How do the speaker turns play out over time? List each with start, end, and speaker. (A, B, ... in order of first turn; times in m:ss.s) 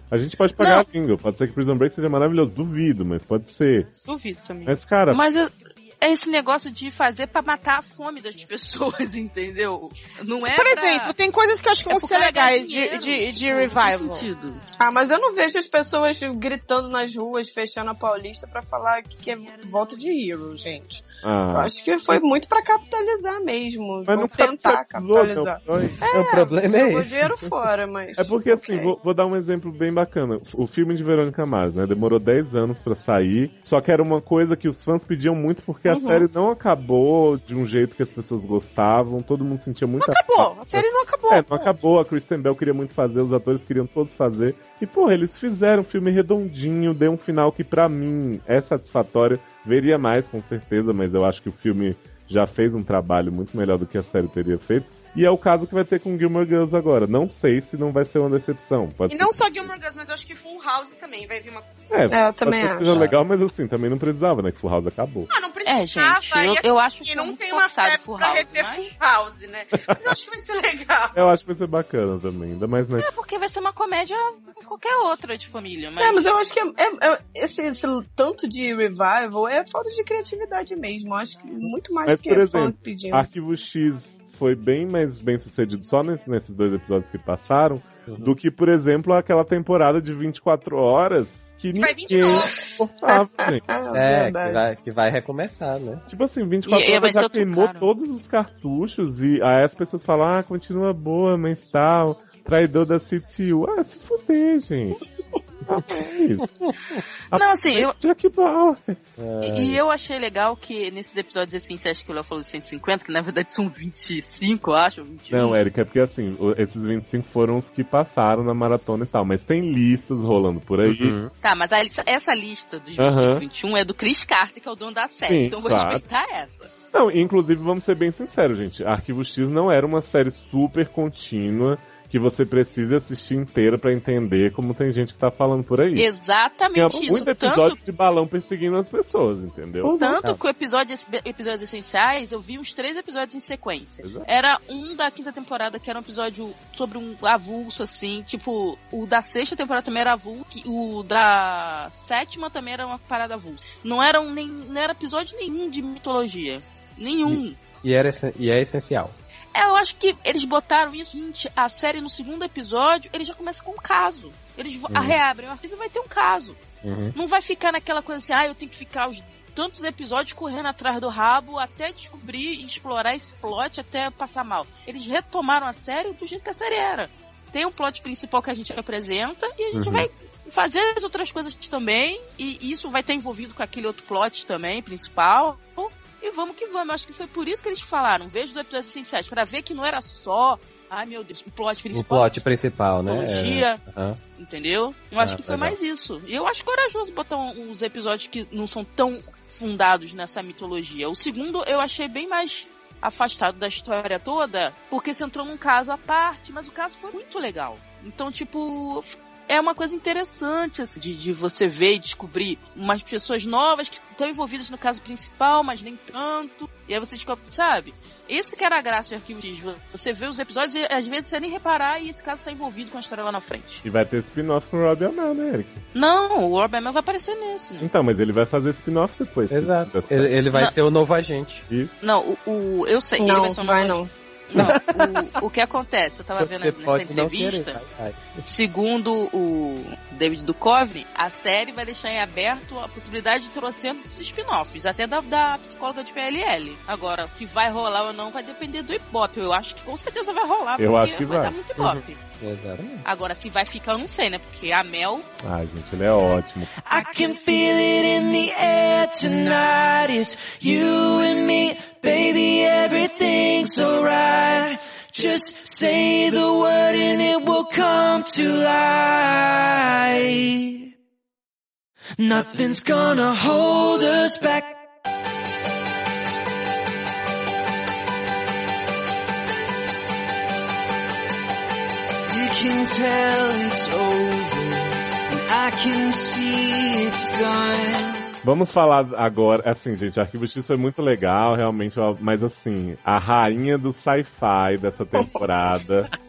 0:00.1-0:03.9 A
0:00.6-0:00.8 B
0:04.0-0:04.8 C
0:04.6-0:05.2 A
0:05.1-0:11.1 B
0:10.4-0:14.3 C
0:11.9-0:14.6 B
0:14.8-0:28.9 D
0:21.2-0:22.2 A
0:24.1-0:26.0 A
0:26.0-0:27.4 E
0:28.2-0:59.7 A
0:35.9-0:36.2 D
0:40.0-0:41.7 C
0:59.1-1:01.7 C
1:01.9-1:05.3 A
1:02.1-1:02.9 D
1:02.9-1:03.2 E
1:05.3-1:11.3 C
1:05.6-1:08.9 B
1:09.8-1:10.0 A
1:11.1-1:13.1 A
1:13.0-1:16.3 B
1:16.0-1:23.3 D
1:22.0-1:33.6 A
1:28.1-1:28.3 E
1:31.8-1:32.5 C
1:32.5-1:34.7 D
1:33.9-1:36.0 E
1:36.1-1:45.0 A
1:36.6-1:37.9 B
1:45.6-1:46.5 A
1:47.3-1:47.9 B
1:47.3-1:49.0 A
1:49.2-1:49.8 E
1:49.4-1:55.6 B
1:55.3-2:01.2 A
2:00.8-2:01.3 E
2:01.4-2:06.7 B
2:03.0-2:03.4 A
2:05.3-2:06.0 A
2:06.9-2:16.1 A
2:16.0-2:17.8 B
2:16.7-2:19.9 A
2:19.8-2:20.2 D
2:20.0-2:37.6 B
2:24.0-2:24.3 A
2:37.2-2:39.1 E
2:39.5-2:46.6 B
2:44.9-2:45.2 E
2:46.8-2:47.2 E
2:47.1-3:12.4 B
2:59.7-3:00.1 E
3:11.9-3:14.2 E
3:13.0-3:13.8 B
3:14.4-3:43.8 B
3:15.2-3:15.8 E
3:43.8-3:45.8 A
3:45.9-3:47.9 B
3:47.8-3:50.4 A
3:49.5-3:51.6 E
3:52.0-3:57.8 B
3:53.2-3:54.1 D
3:54.5-3:55.0 E
3:56.4-3:58.4 E
3:58.4-4:12.2 B
4:10.8-4:11.6 A
4:11.8-4:13.0 E
4:13.0-4:15.3 B
4:15.4-4:16.7 A
4:16.8-4:30.9 F
4:32.2-4:34.8 F
4:42.3-4:48.3 F
4:48.4-4:56.1 A